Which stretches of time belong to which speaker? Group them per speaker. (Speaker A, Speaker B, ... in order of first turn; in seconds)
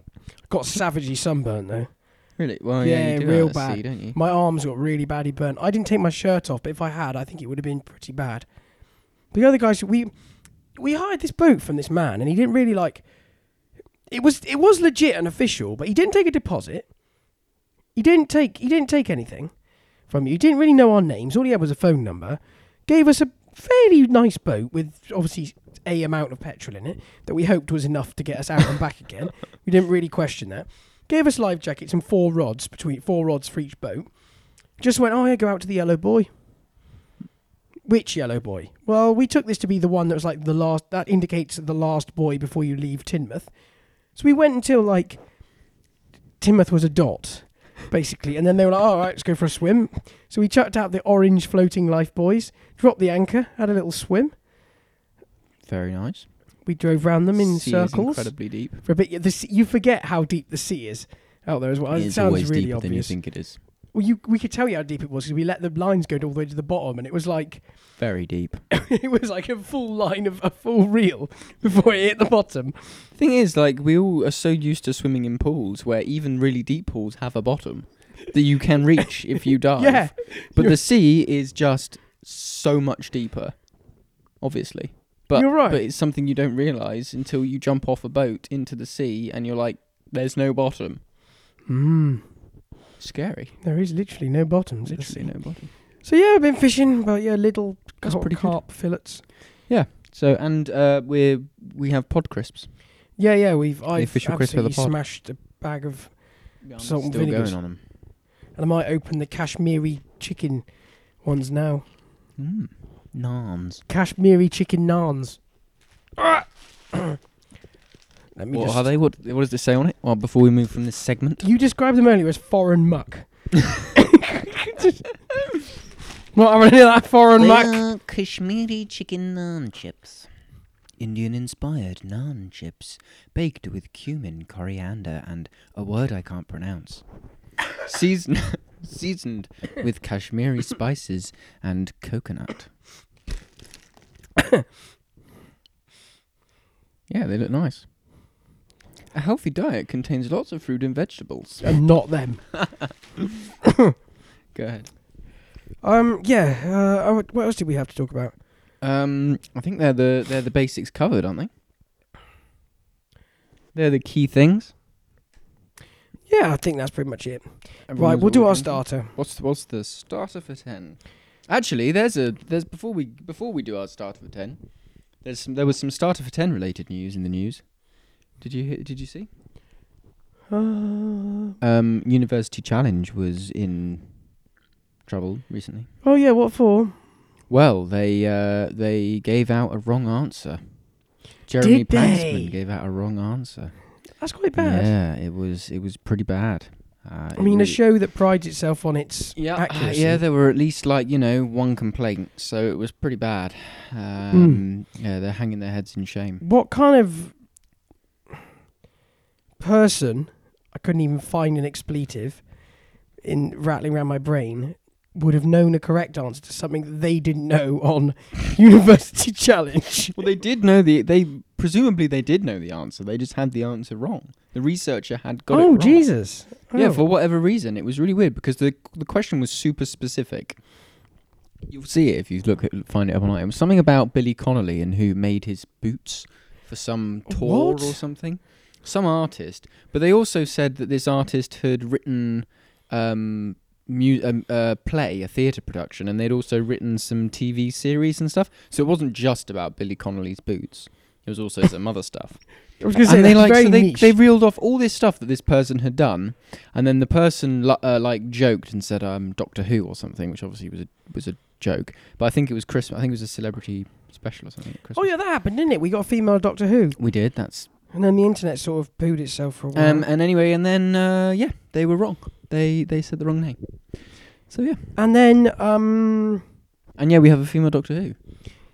Speaker A: 0.4-13.5, 14.1-16.9, 17.9-36.3, 37.8-45.8, 46.4-54.4, 56.6-68.0, 68.7-73.0, 79.8-80.8, 85.3-85.8, 91.7-92.4, 93.6-99.2, 103.2-107.8, 108.5-111.9, 113.9-115.5, 116.2-117.2, 118.3-118.9, 121.4-125.0, 126.3-127.8, 144.4-144.6, 151.6-152.8, 155.8-158.4, 166.3-169.1, 180.5-181.5, 186.0-187.0, 191.6-192.6, 194.2-194.9, 197.3-200.2, 204.3-204.6, 206.4-207.6, 209.6-220.2, 225.5-227.0, 237.3-238.0, 252.8-254.1, 264.9-270.1, 274.9-276.4
Speaker B: 2.4-4.2, 55.6-56.6, 57.3-58.8, 61.9-63.6, 68.0-68.7, 73.1-91.0, 93.0-93.6, 94.9-95.7, 98.0-98.7, 99.7-102.8, 103.9-105.0, 106.6-107.9, 112.4-113.8, 118.5-121.4, 127.4-130.3, 131.0-142.9, 147.1-147.9, 149.1-151.8, 152.5-152.9, 154.5-154.9, 158.8-161.5, 163.7-164.7, 167.9-179.3, 181.6-184.5, 185.0-185.9, 187.5-197.8, 199.3-206.4, 220.1-230.7, 231.7-265.1, 266.9-267.7, 269.7-274.9, 276.9-278.2